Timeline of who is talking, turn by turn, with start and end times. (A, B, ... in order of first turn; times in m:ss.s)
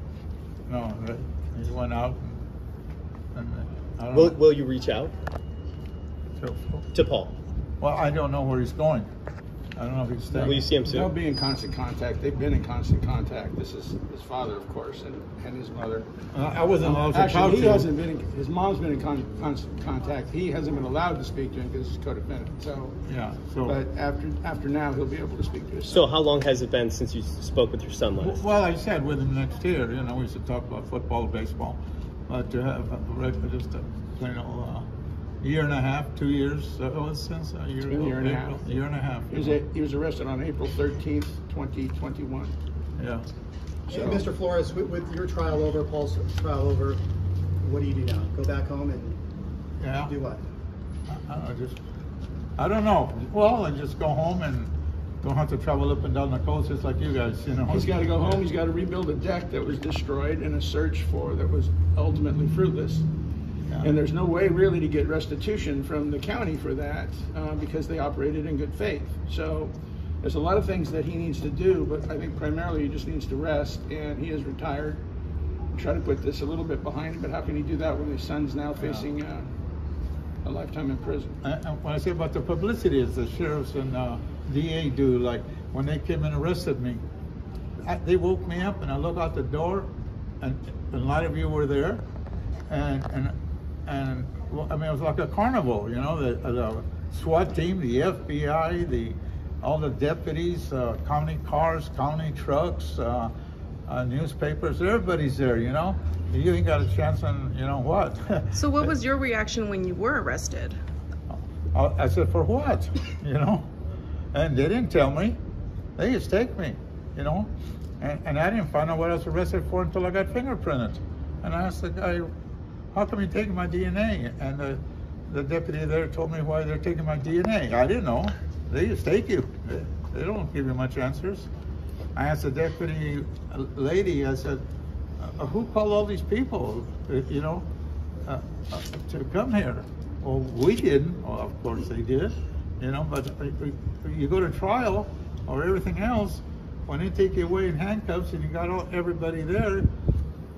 0:00.7-0:02.4 A
0:03.3-0:04.4 A
0:04.1-0:05.1 B
0:06.4-0:06.9 A
0:06.9-0:07.3 B
0:07.8-0:09.1 A
0:09.8-0:10.7 A
0:10.3-0:16.1 C
0:10.4-0:11.1 B
0:16.3-0:17.9 A
0:16.8-0:23.0 C
0:23.0-0:23.8 A
0:23.6-0:26.1 C
0:25.9-0:28.4 B
0:28.2-0:34.9 A
0:35.4-0:39.6 A
0:37.9-0:38.6 C
0:39.3-0:42.5 C
0:43.0-0:43.3 A
0:43.9-0:47.0 D
0:43.9-0:44.2 C
0:47.6-0:49.2 D
0:49.8-0:50.1 A
0:50.0-0:50.4 D
0:51.1-0:51.8 A
0:52.6-0:58.4 A
0:57.7-1:03.1 C
1:03.7-1:03.9 A
1:03.8-1:15.0 C
1:15.7-1:19.5 C
1:18.8-1:19.1 A
1:20.4-1:21.3 C
1:21.4-1:27.0 A
1:27.8-1:32.0 A
1:32.7-1:43.3 A
1:43.9-1:48.9 A
1:48.5-1:50.8 E
1:51.3-1:53.7 A
1:54.3-1:55.4 A
1:56.0-2:02.3 A
2:02.9-2:11.5 A
2:12.1-2:14.6 A
2:15.2-2:17.7 A
2:18.2-2:29.9 A